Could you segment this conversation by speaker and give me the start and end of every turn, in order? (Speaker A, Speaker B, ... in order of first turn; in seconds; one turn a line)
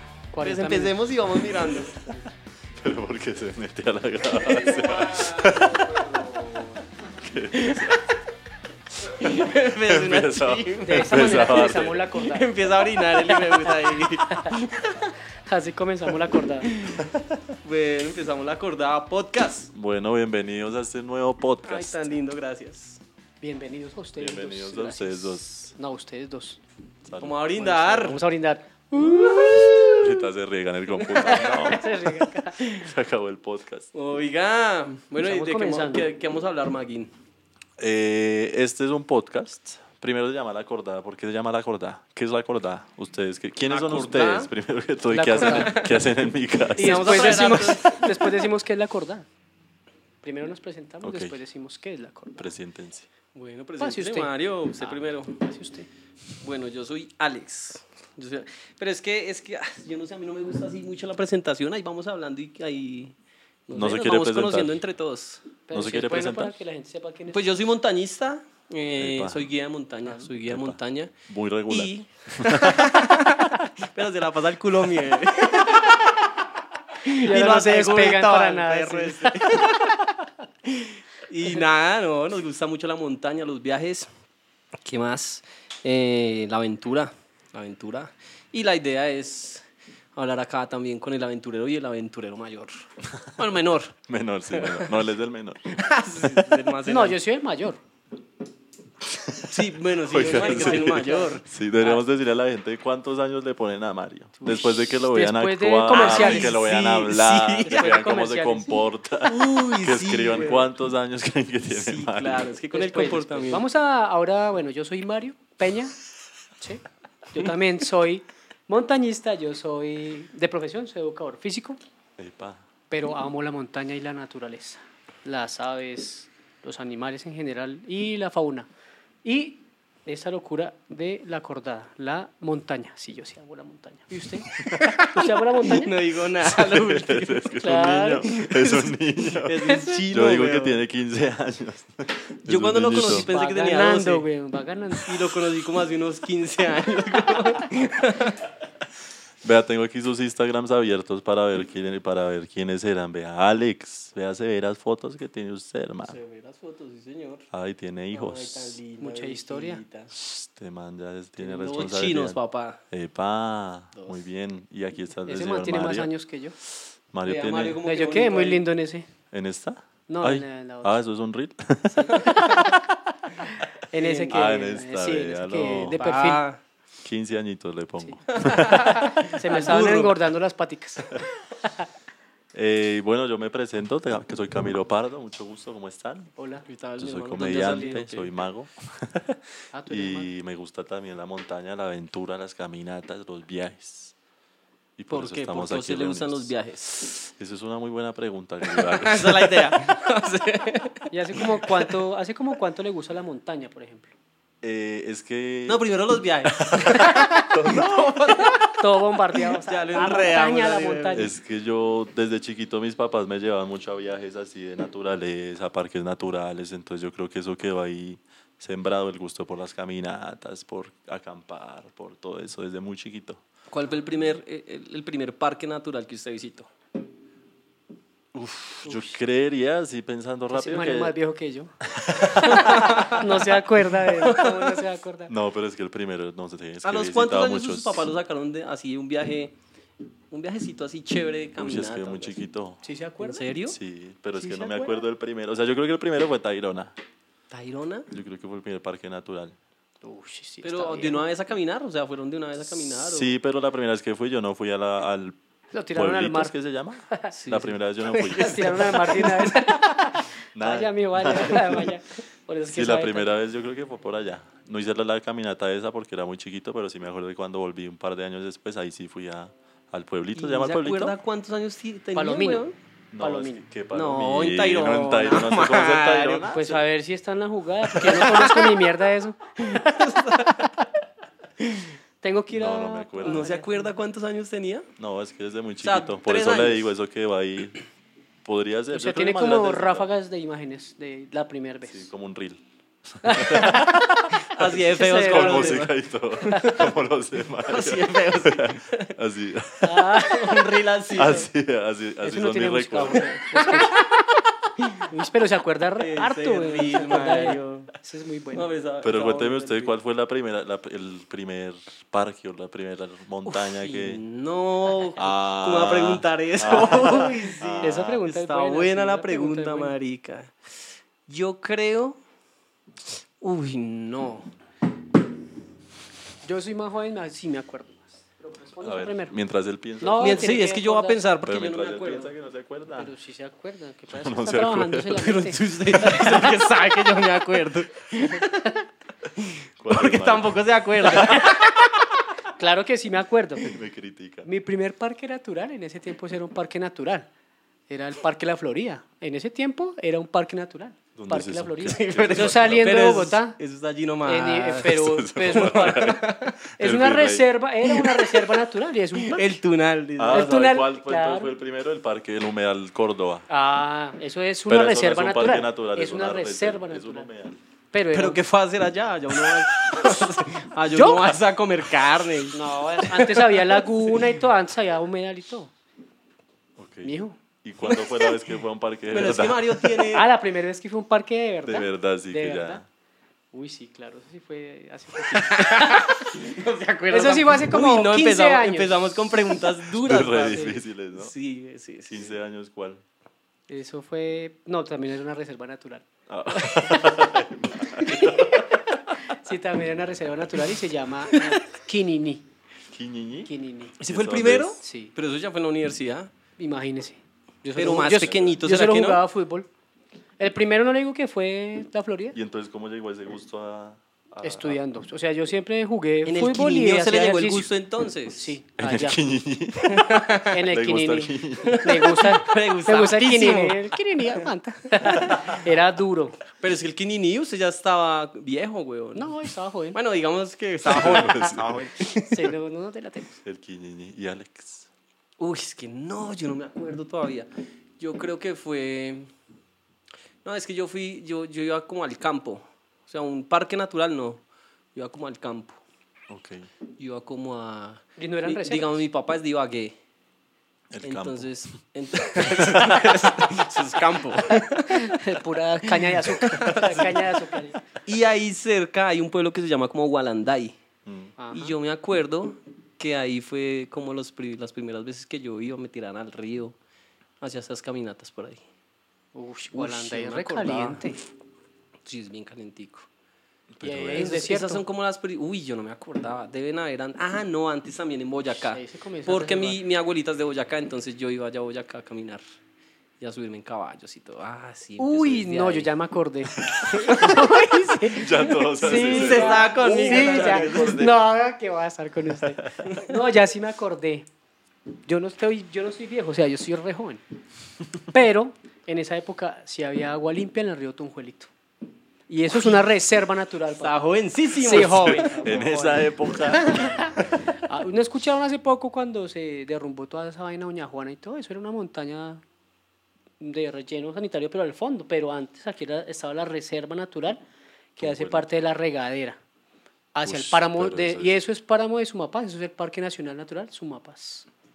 Speaker A: 0.3-1.0
Speaker B: 0.4-2.2
Speaker C: 2.8-6.2
Speaker B: 4.3-6.8
Speaker C: 7.2-8.0
Speaker B: 7.5-8.0
Speaker B: 9.1-15.1
Speaker C: 9.8-12.0
Speaker A: 10.8-12.6
Speaker A: 13.1-14.6
Speaker A: 15.5-16.7
Speaker B: 16.7-17.0
Speaker C: 17.0-17.4
Speaker B: 17.6-19.7
Speaker C: 19.7-22.1
Speaker B: 21.6-23.0
Speaker A: 23.4-26.6
Speaker C: 24.2-25.8
Speaker C: 27.1-27.4
Speaker B: 27.2-28.2
Speaker A: 27.6-29.6
Speaker B: 28.9-30.3
Speaker C: 30.0-31.8
Speaker A: 31.0-32.6
Speaker B: 31.0-31.8
Speaker B: 32.6-32.9
Speaker C: 32.7-33.9
Speaker B: 33.9-37.1
Speaker A: 35.2-36.1
Speaker C: 37.8-47.9
Speaker B: 43.7-44.5
Speaker A: 45.1-45.8
Speaker B: 45.4-46.0
Speaker B: 46.8-48.1
Speaker A: 46.8-49.3
Speaker A: 50.2-52.5
Speaker C: 51.0-51.4
Speaker C: 52.4-53.1
Speaker B: 53.4-55.4
Speaker A: 53.8-55.9
Speaker B: 56.4-63.1
Speaker B: 63.7-65.4
Speaker C: 63.7-64.8
Speaker A: 65.7-67.5
Speaker C: 65.7-66.6
Speaker B: 67.3-71.1
Speaker C: 69.0-69.5
Speaker C: 70.5-73.1
Speaker B: 71.7-76.2
Speaker B: 77.0-80.0
Speaker A: 77.2-79.7
Speaker B: 80.7-84.1
Speaker B: 84.8-89.7
Speaker B: 90.2-92.8
Speaker B: 93.4-94.0
Speaker C: 94.1-95.7
Speaker B: 94.5-95.0
Speaker B: 95.7-97.2
Speaker A: 96.8-97.8
Speaker C: 99.1-112.5
Speaker B: 99.5-102.0
Speaker A: 100.3-101.2
Speaker A: 104.5-106.6
Speaker B: 105.9-107.8
Speaker A: 107.6-108.8
Speaker B: 109.2-110.7
Speaker B: 111.7-113.7
Speaker A: 112.7-116.0
Speaker A: 116.6-121.8
Speaker C: 122.2-122.6
Speaker A: 122.9-128.7
Speaker A: 129.2-135.9
Speaker B: 134.6-140.8
Speaker C: 136.4-143.3
Speaker A: 137.6-138.2
Speaker B: 142.5-144.3
Speaker A: 143.0-145.2
Speaker B: 145.0-148.4
Speaker C: 149.4-156.2
Speaker B: 156.0-157.5
Speaker C: 157.5-158.8
Speaker B: 158.1-160.1
Speaker A: 159.0-159.8
Speaker C: 160.1-162.4
Speaker B: 161.4-162.8
Speaker C: 162.9-166.1
Speaker B: 164.0-164.2
Speaker A: 165.2-166.6
Speaker C: 167.1-167.8
Speaker B: 167.2-168.7
Speaker A: 167.9-169.1
Speaker C: 169.3-173.0
Speaker A: 170.1-171.0
Speaker A: 171.9-172.7
Speaker A: 173.4-176.4
Speaker B: 174.0-174.3
Speaker C: 174.3-176.1
Speaker B: 176.0-176.6
Speaker C: 177.0-179.0
Speaker B: 178.3-180.2
Speaker A: 178.7-181.9
Speaker C: 182.5-186.3
Speaker A: 186.4-186.7
Speaker B: 186.7-188.3
Speaker C: 187.0-189.4
Speaker A: 187.6-187.8
Speaker A: 189.7-190.3
Speaker C: 189.9-194.1
Speaker C: 195.0-196.6
Speaker B: 195.1-197.1
Speaker C: 197.1-199.9
Speaker B: 198.7-201.9
Speaker A: 201.1-204.1
Speaker C: 204.6-205.9
Speaker B: 205.7-208.7
Speaker C: 206.5-208.6
Speaker A: 206.9-207.5
Speaker A: 208.8-211.3
Speaker B: 209.6-211.3
Speaker C: 211.1-223.4
Speaker B: 223.7-226.7
Speaker C: 228.3-231.2
Speaker A: 228.8-229.1
Speaker A: 230.5-235.3
Speaker C: 231.8-233.0
Speaker B: 232.4-233.3
Speaker B: 234.2-234.8
Speaker C: 235.3-238.1
Speaker B: 236.8-239.6
Speaker B: 240.3-242.4
Speaker C: 241.6-242.8
Speaker A: 242.8-243.5
Speaker B: 243.2-243.8
Speaker C: 243.7-246.9
Speaker A: 244.4-245.0
Speaker B: 247.5-248.1
Speaker C: 248.1-249.6
Speaker A: 250.0-251.2
Speaker B: 250.6-253.3
Speaker C: 252.7-255.4
Speaker A: 255.7-256.6
Speaker C: 255.9-258.8
Speaker B: 257.3-260.0
Speaker A: 258.4-263.3
Speaker C: 260.6-261.9
Speaker C: 262.7-271.2
Speaker B: 270.4-272.8
Speaker A: 272.1-272.7
Speaker C: 273.1-276.8
Speaker A: 273.2-273.7
Speaker B: 273.9-276.6
Speaker A: 276.5-280.6
Speaker B: 278.0-278.9
Speaker B: 279.7-280.7
Speaker B: 281.6-281.9
Speaker A: 282.2-283.9
Speaker C: 282.5-283.5
Speaker B: 283.2-284.9
Speaker C: 285.0-287.8
Speaker B: 285.8-286.9
Speaker C: 288.4-290.1
Speaker A: 288.9-292.1
Speaker C: 291.9-292.6
Speaker C: 293.2-300.1
Speaker A: 293.2-295.9
Speaker B: 294.4-296.9
Speaker A: 296.5-296.8
Speaker B: 297.7-299.1
Speaker A: 299.8-300.8
Speaker B: 300.2-301.5
Speaker C: 301.1-303.7
Speaker A: 302.2-304.1
Speaker B: 303.1-303.8
Speaker A: 305.1-308.7
Speaker B: 306.0-307.9
Speaker B: 308.5-309.9
Speaker C: 309.0-314.2
Speaker B: 313.5-320.5
Speaker C: 315.2-318.2
Speaker A: 316.7-320.0
Speaker B: 321.3-322.2
Speaker B: 323.4-324.5
Speaker A: 326.4-329.3
Speaker C: 328.8-330.6
Speaker A: 330.0-331.2
Speaker B: 330.2-332.3
Speaker C: 331.4-333.1
Speaker A: 333.0-336.7
Speaker C: 334.1-335.2
Speaker B: 335.1-338.7
Speaker B: 339.4-342.1
Speaker C: 339.8-340.7
Speaker A: 341.2-341.6
Speaker A: 342.6-343.7
Speaker C: 343.6-344.5
Speaker A: 344.4-347.3
Speaker A: 347.9-353.6
Speaker C: 351.1-353.0
Speaker B: 351.8-356.6
Speaker A: 354.3-356.2
Speaker C: 354.8-357.5
Speaker A: 356.8-359.5
Speaker B: 357.9-358.6
Speaker B: 359.1-360.6
Speaker C: 360.2-363.4
Speaker A: 360.3-361.5
Speaker A: 363.5-367.3
Speaker C: 364.7-367.6
Speaker A: 367.9-368.4
Speaker B: 368.1-373.9
Speaker A: 370.9-371.3
Speaker A: 372.5-375.7
Speaker C: 376.8-380.1
Speaker A: 377.0-377.4
Speaker B: 378.0-378.3
Speaker B: 379.1-380.2
Speaker A: 380.1-382.8
Speaker C: 381.6-382.9
Speaker A: 383.5-386.3
Speaker B: 385.3-392.4
Speaker A: 387.1-388.9
Speaker C: 389.8-391.3
Speaker C: 392.1-393.0
Speaker A: 393.7-402.4
Speaker C: 396.3-399.0
Speaker C: 402.9-404.8
Speaker A: 403.5-403.9
Speaker B: 404.0-406.3
Speaker A: 404.8-405.1
Speaker A: 406.6-409.7
Speaker B: 407.8-409.2
Speaker C: 408.1-408.6
Speaker A: 410.4-412.4
Speaker C: 412.3-414.8
Speaker A: 414.4-417.7
Speaker B: 416.3-418.6
Speaker A: 418.4-419.2
Speaker C: 418.8-421.8
Speaker B: 419.9-420.6
Speaker A: 420.5-426.4
Speaker B: 421.6-424.4
Speaker B: 425.0-425.3
Speaker B: 426.6-429.3
Speaker A: 429.1-430.0
Speaker B: 429.9-432.5
Speaker C: 430.9-431.9
Speaker A: 432.3-433.4
Speaker C: 433.4-434.9
Speaker B: 435.4-439.3
Speaker B: 440.4-444.4
Speaker B: 444.9-445.8
Speaker C: 446.3-446.7
Speaker B: 447.0-449.9
Speaker A: 448.2-449.0
Speaker C: 450.9-451.5
Speaker B: 451.0-455.2
Speaker C: 452.4-453.4
Speaker A: 454.9-457.8
Speaker B: 455.9-457.3
Speaker B: 458.1-460.8
Speaker C: 461.1-461.3
Speaker A: 461.4-461.8
Speaker B: 461.5-466.8
Speaker B: 467.4-468.6
Speaker A: 469.3-471.2
Speaker B: 469.7-471.0
Speaker B: 472.1-473.1
Speaker C: 473.7-474.3
Speaker A: 473.8-474.8
Speaker B: 474.1-482.4
Speaker A: 478.5-479.8
Speaker B: 483.2-485.9
Speaker A: 485.0-494.3
Speaker C: 486.7-486.9
Speaker B: 486.9-487.5
Speaker C: 488.1-491.1
Speaker B: 488.6-491.1
Speaker C: 492.4-493.0
Speaker A: 495.1-497.2
Speaker A: 498.1-501.5
Speaker A: 502.3-504.0
Speaker B: 503.8-505.8
Speaker A: 504.6-506.1
Speaker C: 505.4-506.9
Speaker B: 506.5-507.0
Speaker A: 506.8-512.4
Speaker A: 513.4-517.4
Speaker C: 518.0-518.5
Speaker A: 518.0-519.4
Speaker A: 520.1-524.5
Speaker C: 520.2-521.4